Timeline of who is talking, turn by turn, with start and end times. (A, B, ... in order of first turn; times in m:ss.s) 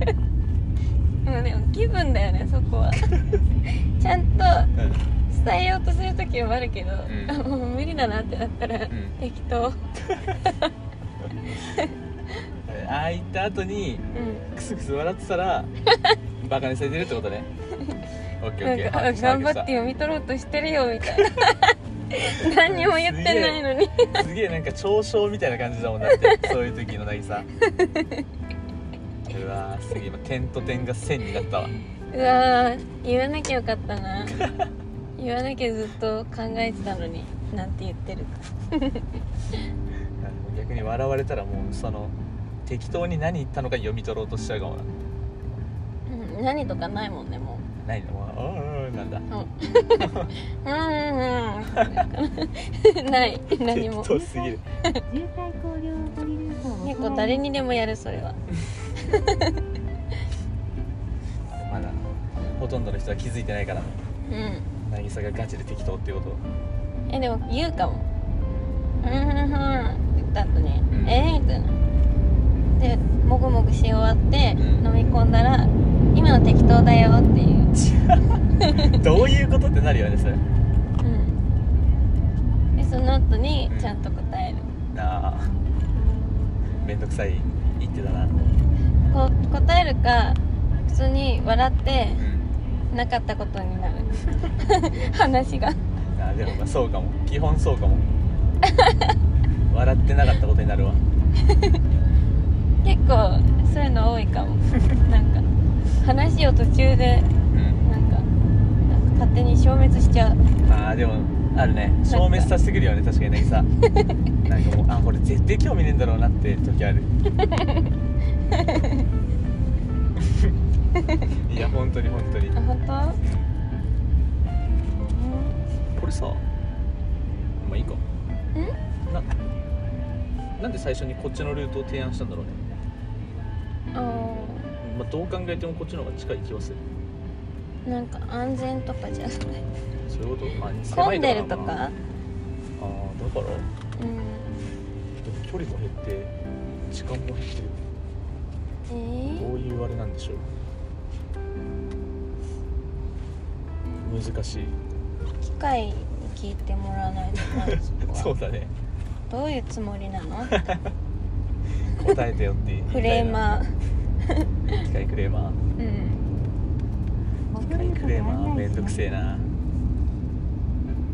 0:01.2-0:03.1 A
0:03.7-0:04.7 A
0:04.8-0:05.0 B
0:05.3-0:09.8 A
0:07.1-0:07.4 B
0:08.9-0:09.2 B
0:10.4-0:10.7 A
0:11.6-0:11.9 A
0:12.6-0:15.7 B
0:14.1-0:14.4 A
0:16.4-0:17.5 B
0:18.4-0:19.7 B
0:18.6-0:24.2 A
0:22.2-0:27.5 B
0:26.1-0:26.5 A
0:27.7-0:28.2 A
0:29.3-0:31.8 B
0:32.1-0:34.4 A
0:34.4-0:34.7 B
0:35.2-0:39.0 A
0:40.2-0:44.9 B
0:46.1-0:47.6 A
0:47.8-0:49.2 B
0:49.3-0:54.2 A
0:50.0-0:50.3 B
0:51.7-0:52.0 B
0:53.7-0:54.6 B
0:55.0-0:57.4 C
0:56.8-0:58.4 A
0:59.0-0:59.6 A
1:01.5-1:04.0 B
1:04.3-1:04.6 A
1:04.8-1:06.4 B
1:07.1-1:08.1 A
1:09.0-1:11.8 A
1:10.9-1:11.2 B
1:12.8-1:17.7 A
1:14.6-1:14.9 B
1:17.7-1:20.4 B
1:18.6-1:19.0 A
1:21.0-1:21.4 A
1:22.8-1:24.7 A
1:24.9-1:25.6 B
1:26.8-1:28.4 B
1:29.1-1:32.2 A
1:32.2-1:32.5 B
1:32.9-1:35.8 A
1:36.1-1:38.1 B
1:38.7-1:39.1 A
1:39.7-1:41.0 B
1:41.5-1:41.8 A
1:42.8-1:45.5 A
1:46.0-1:47.3 A
1:47.5-1:47.8 B
1:47.8-1:48.3 A
1:48.9-1:50.4 A
1:50.6-1:53.7 B
1:52.1-1:52.5 A
1:54.4-1:57.1 B
1:57.4-1:57.9 A
1:58.5-1:59.0 A
2:00.2-2:00.5 B
2:01.0-2:01.3 A
2:01.4-2:02.6 B
2:02.5-2:03.2 A
2:05.1-2:05.5 A
2:05.9-2:06.4 B
2:07.6-2:08.0 B
2:10.6-2:12.6 B
2:13.9-2:14.7 A
2:14.8-2:16.8 B
2:17.8-2:19.6 A
2:20.1-2:21.8 B
2:20.9-2:21.9 A
2:22.8-2:23.7 B
2:24.0-2:24.5 A
2:25.2-2:26.3 B
2:26.9-2:27.8 B
2:28.9-2:29.5 A
2:29.4-2:30.4 B
2:34.0-2:34.8 B
2:35.4-2:38.3 A
2:37.5-2:38.7 B
2:39.3-2:40.6 A
2:40.5-2:40.9 B
2:41.9-2:43.4 B
2:42.9-2:43.7 A
2:44.2-2:44.8 A
2:44.8-2:45.6 B
2:45.8-2:46.2 A
2:47.5-2:49.0 C
2:47.6-2:49.5 B